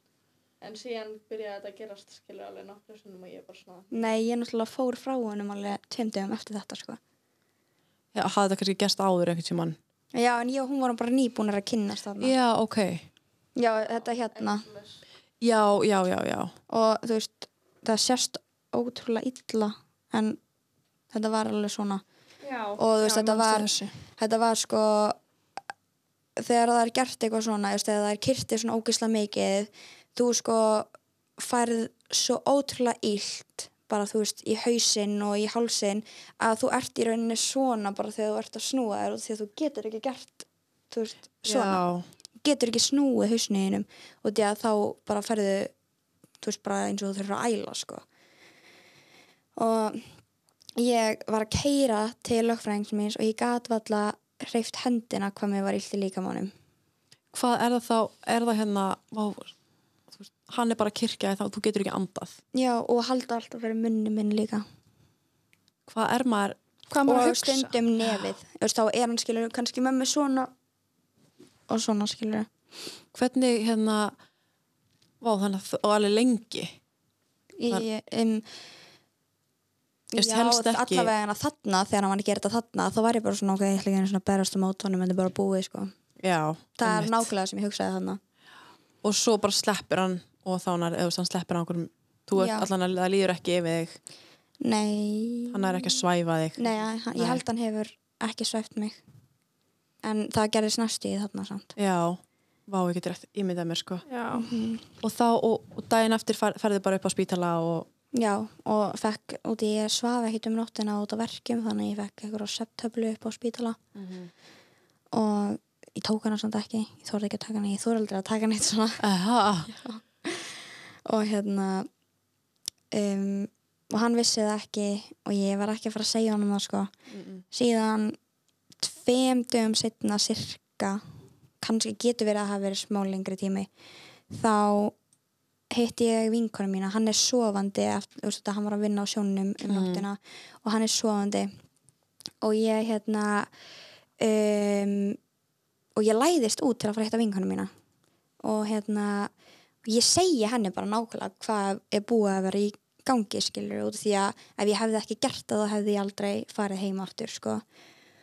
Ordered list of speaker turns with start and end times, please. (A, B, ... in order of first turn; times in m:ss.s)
0:00.6-0:04.1 A
0:03.9-0:07.0 B
0:08.1-0:09.8 C
0:10.1-0:12.3 B
0:12.2-0:13.1 C
0:13.6-0:14.6 B
0:14.0-0:15.0 A
0:15.4-0:16.5 C
0:16.7-0:20.4 B
0:21.1-0:22.0 B
0:22.4-0:23.9 D
0:22.8-0:25.2 B
0:26.4-0:41.8 B
0:41.4-0:42.0 C
0:42.4-0:45.7 B
0:46.4-0:48.0 B
0:49.6-0:50.1 B
0:50.8-0:56.5 B
0:57.3-0:59.5 C
1:00.1-1:02.4 C
1:02.5-1:04.6 B
1:05.9-1:06.6 C
1:06.9-1:07.7 D
1:07.0-1:10.5 B
1:11.7-1:12.5 B
1:13.1-1:14.1 C
1:15.2-1:16.8 C
1:17.6-1:18.4 B
1:20.1-1:25.9 B
1:20.2-1:21.1 C
1:26.2-1:27.3 C
1:26.8-1:28.2 B
1:29.0-1:34.0 C
1:32.4-1:32.7 B
1:34.6-1:36.0 B
1:35.5-1:37.4 C
1:36.6-1:39.0 B
1:40.0-1:41.7 B
1:41.8-1:44.0 C
1:44.0-1:44.5 D
1:44.3-1:44.8 B
1:45.0-1:47.9 C
1:48.1-1:53.8 B
1:53.9-1:54.3 C
1:55.1-1:59.0 B
1:59.0-1:59.7 C
1:59.7-2:01.9 B
2:02.9-2:06.9 B
2:07.1-2:07.4 C
2:07.5-2:08.2 B
2:08.8-2:11.0 B
2:11.6-2:13.7 B
2:14.3-2:14.9 B
2:15.7-2:21.5 B
2:19.7-2:20.0 C
2:22.4-2:23.5 B
2:24.2-2:25.2 B
2:26.0-2:27.7 B
2:28.4-2:29.3 B
2:29.8-2:37.6 B